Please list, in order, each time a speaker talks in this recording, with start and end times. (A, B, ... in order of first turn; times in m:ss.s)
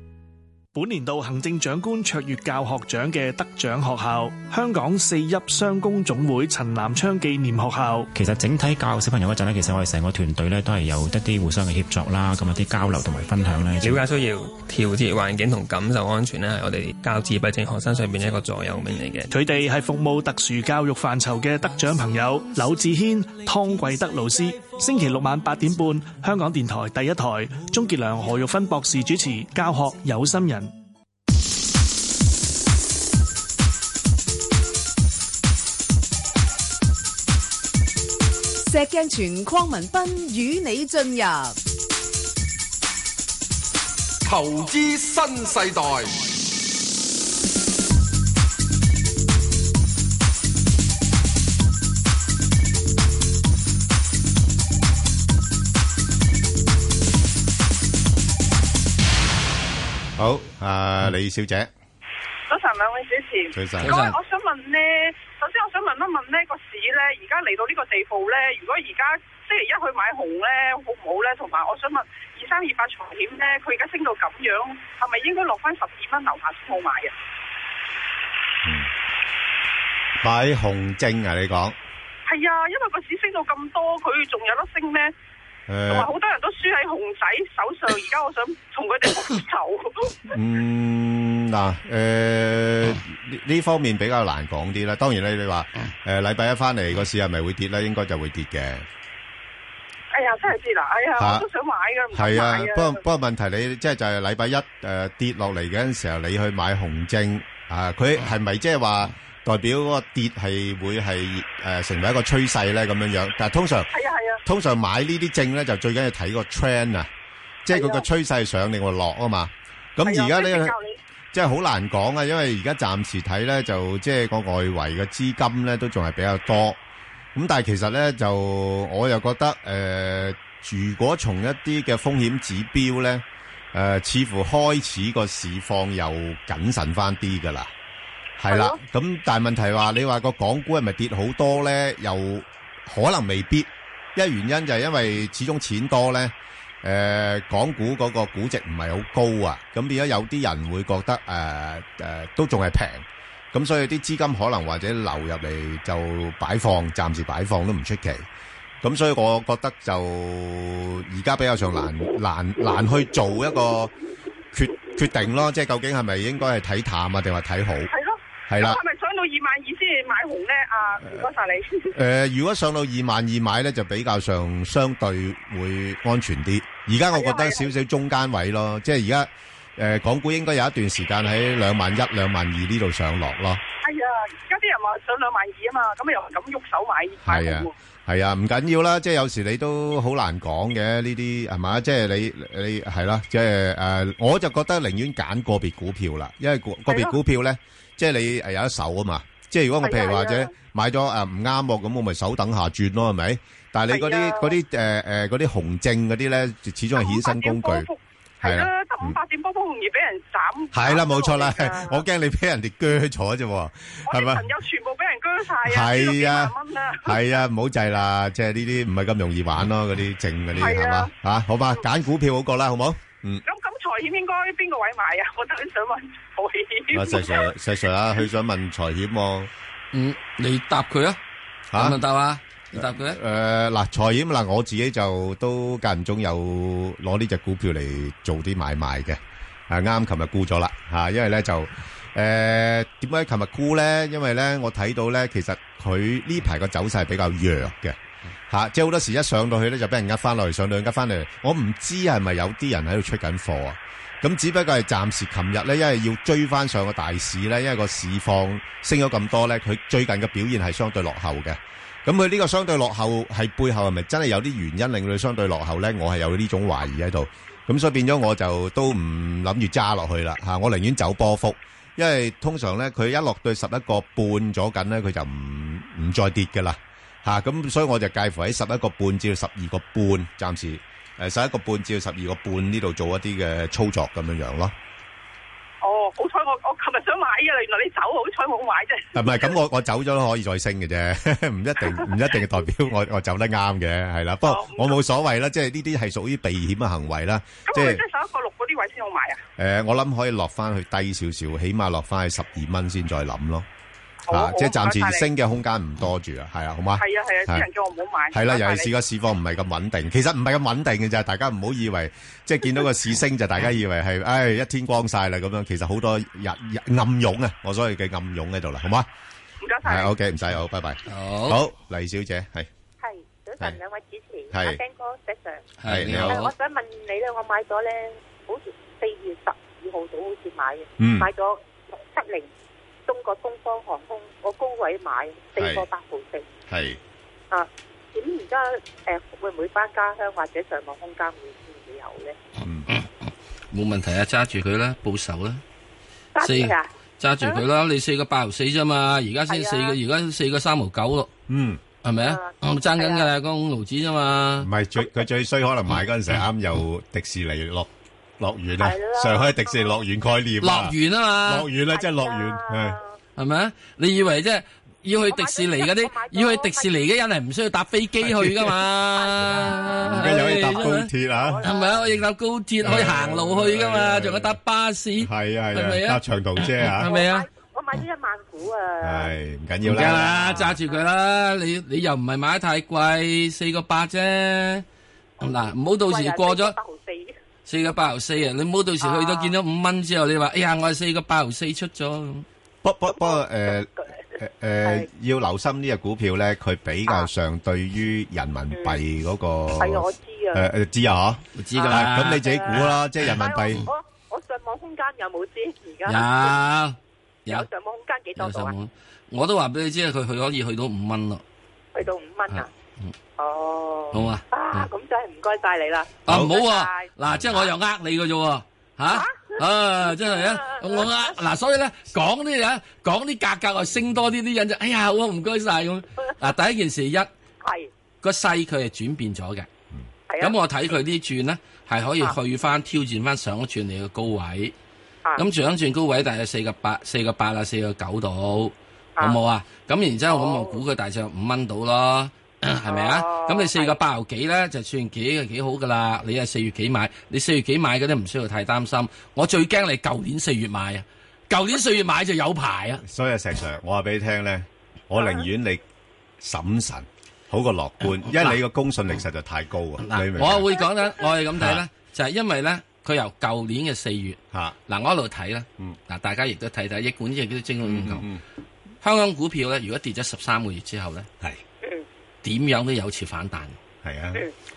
0:00.7-0:08.1 A
0:08.1-0:14.0 B
0:13.8-0:19.3 C
0:19.3-0:30.7 A
0:38.6-0:41.6 D
0:44.2-0:46.2 E
1:00.2-1:01.7 F
1:02.5-1:17.1 G
1:03.5-1:03.9 F
1:03.8-1:04.2 H
1:18.6-1:18.9 F
1:20.2-1:21.8 F
1:22.2-1:25.1 G
1:25.7-1:26.1 F
1:25.9-1:30.1 G
1:30.3-1:38.9 F
1:40.1-1:43.0 G
1:41.2-1:41.4 F
1:42.1-1:53.9 F
1:53.9-1:54.4 G
1:54.4-1:57.1 F
1:57.6-2:00.7 F
1:57.7-1:58.0 G
2:00.0-2:01.0 G
2:01.3-2:06.8 F
2:07.3-2:17.7 F
2:18.4-2:38.2 F
2:18.5-2:18.8 G
2:38.8-2:43.9 F
2:44.5-2:47.9 F
2:47.9-2:51.9 G
2:48.5-2:48.8 F
2:51.9-3:03.6 F
2:57.1-2:57.7 G
3:03.8-3:07.7 G
3:07.2-3:27.9 F
3:16.9-3:17.2 G
3:19.8-3:20.5 G
3:23.9-3:24.5 G
3:27.0-3:32.0 G
3:28.4-3:29.1 F
3:30.7-3:34.4 F
3:34.1-3:37.2 G
3:35.7-3:36.5 F
3:37.0-3:43.4 F
3:40.5-3:41.1 G
3:43.4-3:47.5 G
3:46.9-3:49.5 F
3:49.9-3:51.2 H
3:51.7-3:52.0 F
3:51.8-3:53.2 H
3:52.7-4:08.0 F
4:08.5-4:44.7 F
4:45.8-4:49.1 G
4:49.1-4:58.0 F
4:54.4-4:55.0 G
4:57.7-4:59.4 G
4:59.6-5:03.7 F
5:04.3-5:05.3 G
5:04.3-5:07.6 F
5:07.0-5:08.9 G
5:08.3-5:19.1 F
5:19.6-5:20.1 G
5:19.8-5:22.7 F
5:21.1-5:21.6 H
5:23.0-5:25.6 I
5:24.5-5:24.8 F
5:25.8-5:26.5 H
5:25.9-5:26.5 F
5:26.2-5:32.5 I
5:31.0-5:31.3 F
5:33.1-5:36.5 I
5:35.6-5:35.9 F
5:36.7-5:37.0 F
5:37.5-5:42.4 I
5:42.9-5:45.6 H
5:46.4-5:46.9 I
5:46.4-5:51.3 H
5:49.5-5:50.0 I
5:51.5-5:51.8 F
5:52.0-5:54.7 H
5:52.2-5:53.3 I
5:54.6-6:03.0 F
5:58.8-6:00.0 I
6:00.6-6:01.7 H
6:01.9-6:03.2 I
6:03.4-6:11.1 H
6:05.3-6:06.9 I
6:09.2-6:12.0 I
6:10.0-6:11.6 F
6:11.6-6:17.4 H
6:12.8-6:14.6 F
6:15.2-6:17.1 F
6:17.0-6:19.4 I
6:19.0-6:20.8 F
6:19.8-6:24.8 H
6:25.4-6:26.8 H
6:25.4-6:27.3 I
6:27.6-6:32.4 H
6:29.0-6:29.5 I
6:32.8-6:43.9 F
6:33.1-6:34.1 I
6:34.8-6:35.1 I
6:38.7-6:39.0 I
6:39.8-6:40.7 I
6:41.5-6:43.0 H
6:41.8-6:46.6 I
6:46.0-6:47.6 H
6:47.5-6:48.7 I
6:48.4-6:51.4 H
6:51.9-6:52.7 I
6:52.5-6:53.1 H
6:53.4-6:57.1 I
6:54.1-6:54.9 H
6:56.2-7:07.3 H
6:56.3-6:56.5 F
6:57.3-6:57.6 F
6:59.1-6:59.5 I
7:00.0-7:01.3 I
7:07.6-7:07.9 I
7:08.2-7:09.7 H
7:10.3-7:10.6 I
7:10.4-7:14.7 H
7:15.4-7:33.0 H
7:20.3-7:20.8 I
7:22.8-7:24.0 I
7:33.0-7:35.8 F
7:36.4-7:40.7 F
7:38.3-7:38.6 H
7:40.0-7:48.2 H
7:41.6-7:41.8 F
7:47.8-7:48.4 F
7:49.0-7:51.3 H
7:52.4-7:53.8 H
7:54.0-7:54.4 F